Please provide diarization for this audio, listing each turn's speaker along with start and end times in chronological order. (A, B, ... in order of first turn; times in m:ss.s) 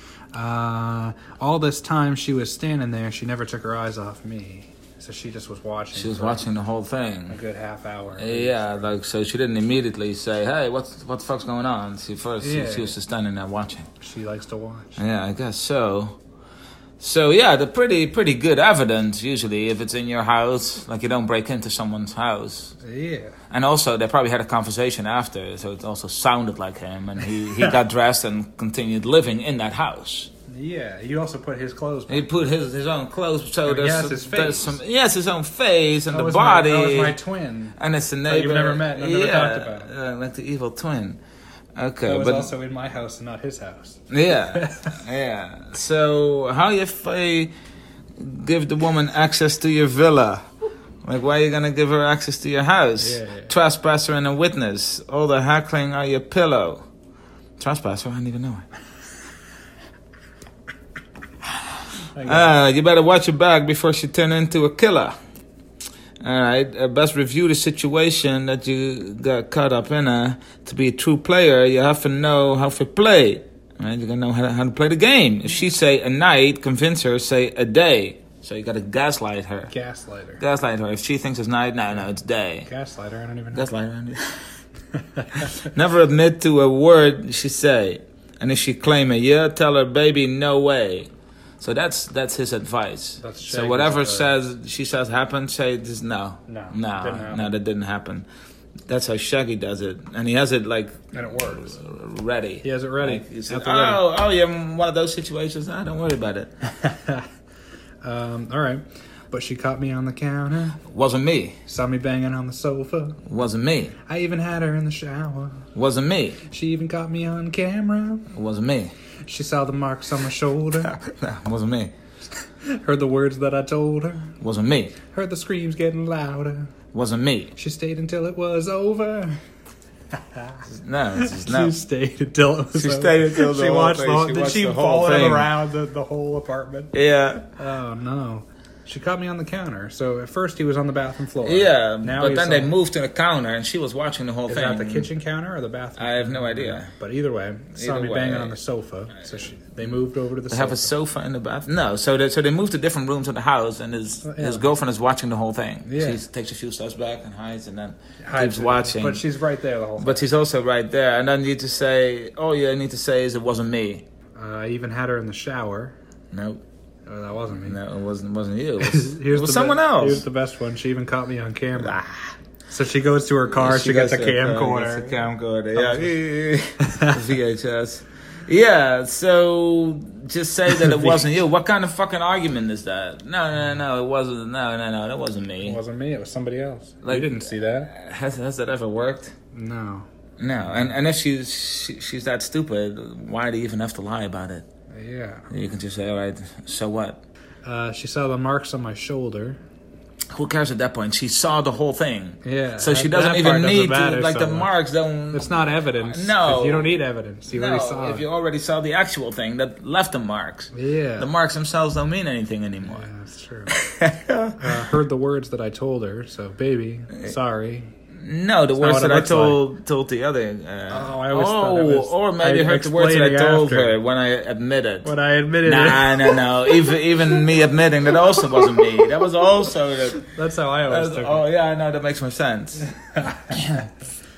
0:00.3-0:06.4 A
0:05.9-0:07.4 B
0:07.3-0:08.9 A
0:08.2-0:13.9 B
0:12.4-0:13.0 A
0:14.0-0:15.0 A
0:15.0-0:16.2 B
0:17.0-0:22.8 B
0:22.8-0:23.4 A
0:23.5-0:30.3 B
0:30.5-0:32.3 A
0:32.1-0:37.2 B
0:33.6-0:34.8 A
0:36.1-0:39.9 A
0:37.8-0:41.2 B
0:41.8-0:42.5 B
0:42.0-0:45.0 A
0:44.1-0:47.5 B
0:48.2-0:50.5 B
0:51.0-0:56.8 B
0:53.0-0:53.5 A
0:57.6-0:58.6 B
1:02.1-1:02.5 A
1:02.2-1:05.2 B
1:06.2-1:19.7 B
1:19.7-1:20.4 A
1:20.4-1:22.7 B
1:22.6-1:23.7 A
1:23.5-1:24.4 B
1:24.9-1:25.5 A
1:25.5-1:38.3 B
1:33.2-1:34.3 A
1:36.5-1:37.5 A
1:38.9-1:46.5 B
1:41.1-1:41.8 A
1:42.6-1:44.0 A
1:46.7-1:47.3 A
1:48.0-1:50.8 A
1:50.8-1:51.6 B
1:51.7-1:53.2 A
1:53.2-1:54.0 B
1:54.1-1:55.6 A
1:55.7-1:56.4 B
1:56.5-1:58.3 A
1:58.3-1:58.9 B
1:59.2-2:01.0 A
2:00.8-2:01.9 B
2:02.6-2:04.3 A
2:04.4-2:05.0 B
2:05.1-2:06.7 A
2:06.9-2:07.5 B
2:07.5-2:09.4 A
2:10.1-2:10.6 A
2:10.6-2:11.8 B
2:11.2-2:16.9 A
2:12.7-2:15.5 B
2:16.9-2:17.4 B
2:17.6-2:22.7 A
2:21.4-2:25.1 B
2:24.5-2:30.9 A
2:26.0-2:26.9 B
2:27.7-2:28.6 B
2:30.5-2:39.2 B
2:34.2-2:34.7 A
2:35.8-2:36.2 A
2:38.2-2:40.2 A
2:40.0-2:44.0 B
2:44.4-2:45.9 A
2:46.3-2:46.6 B
2:47.0-2:47.8 A
2:47.6-2:50.2 B
2:48.8-2:52.1 A
2:51.7-2:52.3 B
2:52.7-2:56.1 A
2:53.5-3:05.8 B
3:00.8-3:01.1 A
3:05.6-3:07.9 A
3:07.0-3:09.3 B
3:09.5-3:10.0 A
3:10.4-3:14.6 B
3:14.9-3:15.5 A
3:15.5-3:17.2 B
3:17.6-3:19.6 A
3:20.3-3:26.9 B
3:22.4-3:24.7 A
3:25.3-3:28.2 A
3:27.5-3:33.1 B
3:30.7-3:31.3 A
3:32.8-3:33.7 A
3:33.7-3:34.8 B
3:34.6-3:37.9 A
3:38.2-3:45.1 B
3:38.8-3:39.6 A
3:40.9-3:44.0 A
3:45.0-3:46.4 A
3:45.6-3:50.3 B
3:48.4-3:48.8 A
3:50.2-3:51.4 A
3:50.8-3:52.9 B
3:52.9-3:53.9 A
3:53.5-3:53.9 B